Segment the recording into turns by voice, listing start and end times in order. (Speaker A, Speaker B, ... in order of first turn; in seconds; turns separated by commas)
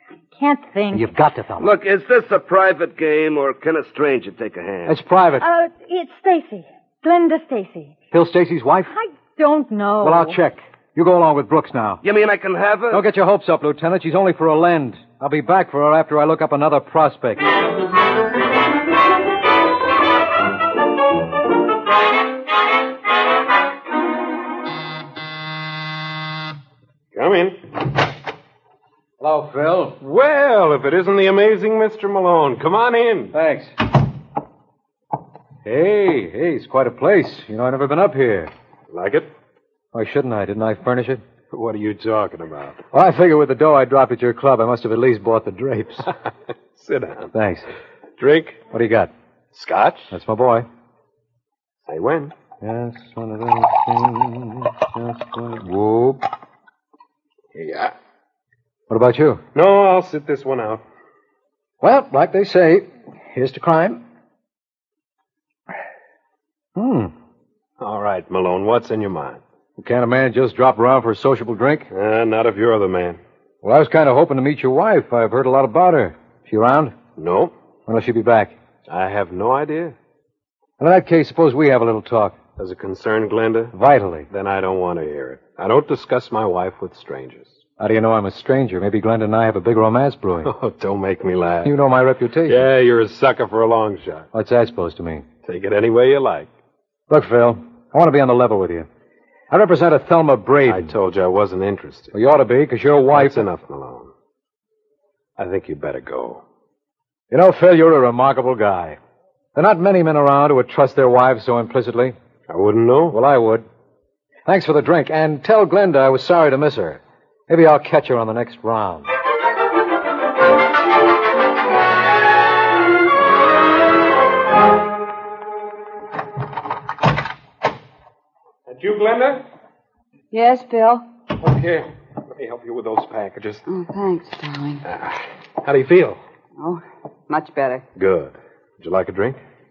Speaker A: 0.3-1.1, Speaker B: 0.9-1.7, Speaker C: 1.6-5.0, Speaker B: 4.9-5.5, Speaker A: 5.4-8.0, Speaker B: 8.1-8.9, Speaker A: 8.9-10.4, Speaker B: 10.0-12.0, Speaker C: 12.0-13.0, Speaker B: 12.9-17.4, Speaker D: 27.1-27.6, Speaker B: 29.2-30.0, Speaker D: 30.0-33.3, Speaker B: 33.3-33.7, Speaker B: 35.6-38.5, Speaker D: 38.9-39.3, Speaker B: 39.9-41.2, Speaker D: 41.5-42.8, Speaker B: 42.9-46.1, Speaker D: 46.7-47.3, Speaker B: 47.3-47.7, Speaker D: 48.2-48.6, Speaker B: 48.7-49.1, Speaker D: 49.5-50.1, Speaker B: 50.1-50.7, Speaker D: 51.9-52.3, Speaker B: 52.6-56.2, Speaker D: 57.5-57.9, Speaker B: 58.9-59.4, Speaker D: 59.5-60.8, Speaker B: 61.8-64.0, Speaker B: 66.8-67.1, Speaker D: 67.8-69.4, Speaker B: 69.8-71.9, Speaker D: 71.9-73.2, Speaker B: 73.6-77.0, Speaker D: 77.2-77.5, Speaker B: 77.9-78.5, Speaker D: 78.9-79.9, Speaker B: 80.8-82.4, Speaker D: 82.6-83.7, Speaker B: 83.7-84.3, Speaker D: 84.3-87.6, Speaker B: 87.8-90.5, Speaker D: 90.4-91.8, Speaker B: 91.6-92.6, Speaker D: 92.5-94.3, Speaker B: 94.3-95.2, Speaker D: 95.4-96.5, Speaker B: 97.1-98.9, Speaker B: 99.5-100.9, Speaker D: 100.7-102.1, Speaker B: 102.1-103.4, Speaker D: 103.1-104.1, Speaker D: 105.4-106.4, Speaker B: 107.3-109.0, Speaker B: 109.5-112.1, Speaker D: 112.5-113.2, Speaker B: 113.1-113.6, Speaker B: 114.5-119.0, Speaker D: 128.7-129.4, Speaker E: 130.3-131.1, Speaker D: 131.4-133.6, Speaker E: 133.7-134.8, Speaker D: 134.8-136.2, Speaker E: 136.6-137.8, Speaker D: 137.9-139.4